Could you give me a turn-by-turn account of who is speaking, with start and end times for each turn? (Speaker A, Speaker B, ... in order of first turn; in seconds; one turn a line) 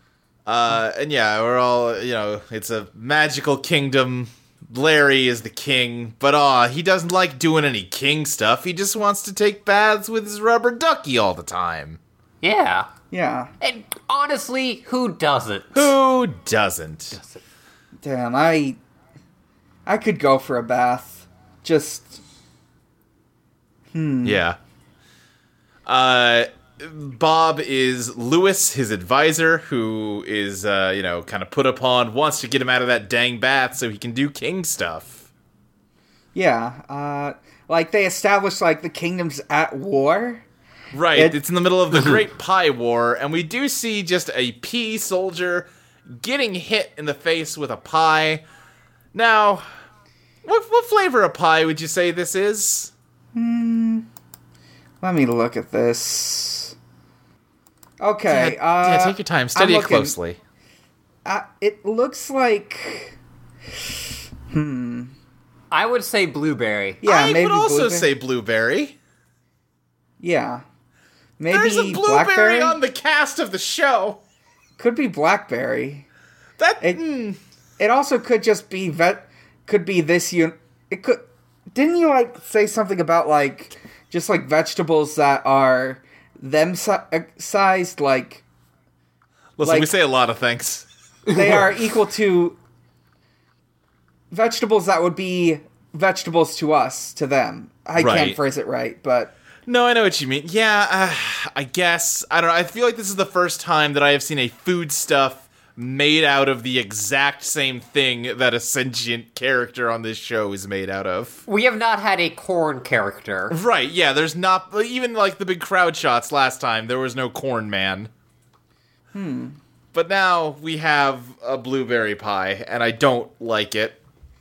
Speaker A: 0.5-12.0
Speaker B: 12.4-12.9
Speaker C: 13.1-13.5
Speaker B: 13.6-15.9
Speaker A: 15.7-17.2
Speaker B: 17.1-17.4
Speaker C: 18.0-18.8
Speaker C: 19.9-22.2
Speaker C: 23.9-24.4
Speaker A: 24.2-24.6
Speaker A: 25.9-35.2
Speaker C: 36.3-40.5
Speaker A: 40.9-48.4
Speaker A: 49.1-49.7
Speaker A: 50.4-52.9
Speaker C: 53.3-54.1
Speaker C: 55.0-56.7
Speaker C: 58.0-60.1
Speaker A: 58.3-60.4
Speaker C: 61.2-63.2
Speaker C: 64.5-65.1
Speaker B: 65.7-67.0
Speaker C: 67.0-68.1
Speaker A: 67.0-69.0
Speaker C: 70.2-70.6
Speaker C: 71.4-72.8
Speaker A: 71.5-74.2
Speaker C: 74.8-76.1
Speaker A: 76.6-77.4
Speaker C: 77.8-88.4
Speaker A: 89.6-90.9
Speaker C: 89.6-89.9
Speaker B: 91.3-91.6
Speaker C: 91.3-92.6
Speaker C: 94.3-99.3
Speaker A: 98.0-98.4
Speaker A: 99.7-111.4
Speaker B: 111.5-113.5
Speaker A: 113.5-118.1
Speaker C: 119.1-119.6
Speaker A: 119.9-124.0